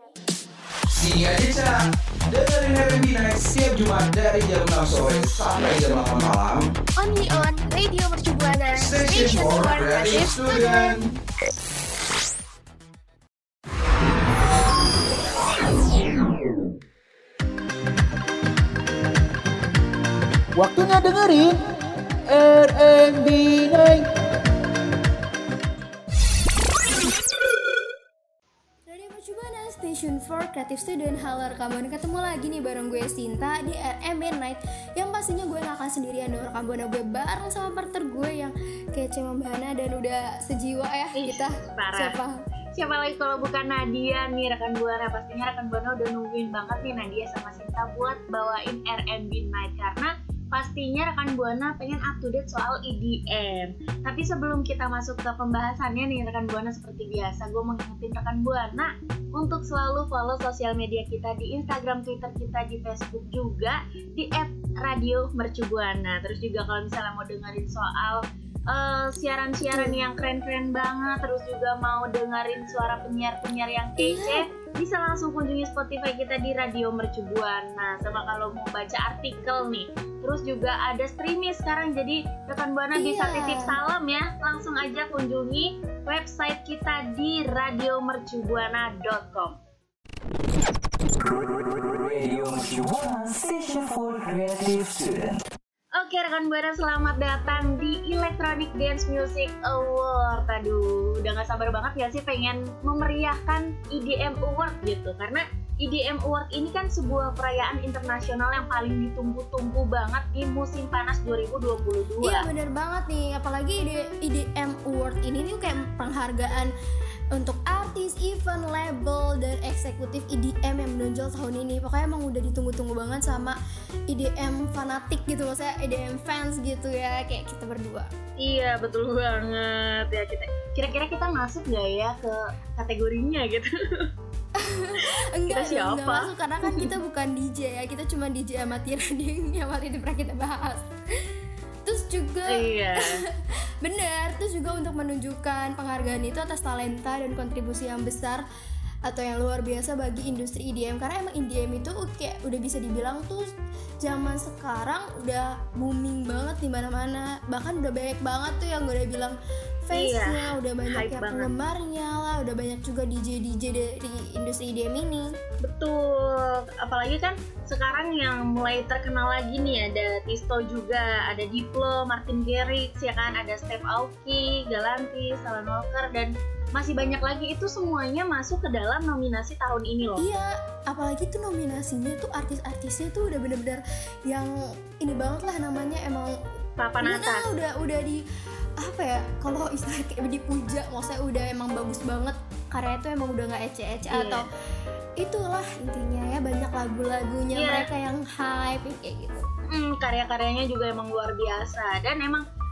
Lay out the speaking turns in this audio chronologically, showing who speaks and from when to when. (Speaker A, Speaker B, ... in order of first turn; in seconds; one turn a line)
Speaker A: 0.9-1.7
Speaker A: 2.3-6.7
Speaker B: 7.0-11.0
Speaker A: 8.8-11.1
Speaker C: 20.6-21.6
Speaker C: 22.3-24.1
Speaker D: 28.9-42.4
Speaker E: 41.2-42.2
Speaker E: 42.8-89.6
Speaker D: 69.7-70.0
Speaker D: 74.0-74.4
Speaker D: 83.0-83.8
Speaker F: 91.9-95.4
Speaker E: 96.0-112.4
Speaker D: 112.2-116.7
Speaker D: 117.3-123.6
Speaker D: 124.1-128.1
Speaker E: 128.4-134.1
Speaker D: 134.6-140.9
Speaker E: 135.5-136.8
Speaker D: 141.8-143.3
Speaker E: 142.5-143.2
Speaker D: 143.8-148.4
Speaker D: 149.1-153.5
Speaker D: 154.0-165.3
Speaker E: 159.9-161.5
Speaker E: 165.6-180.2
Speaker D: 180.2-186.4
Speaker E: 186.8-187.5
Speaker D: 187.0-188.2
Speaker D: 188.8-194.5
Speaker E: 194.1-194.4
Speaker D: 195.2-199.4
Speaker E: 197.5-197.9
Speaker E: 199.7-202.4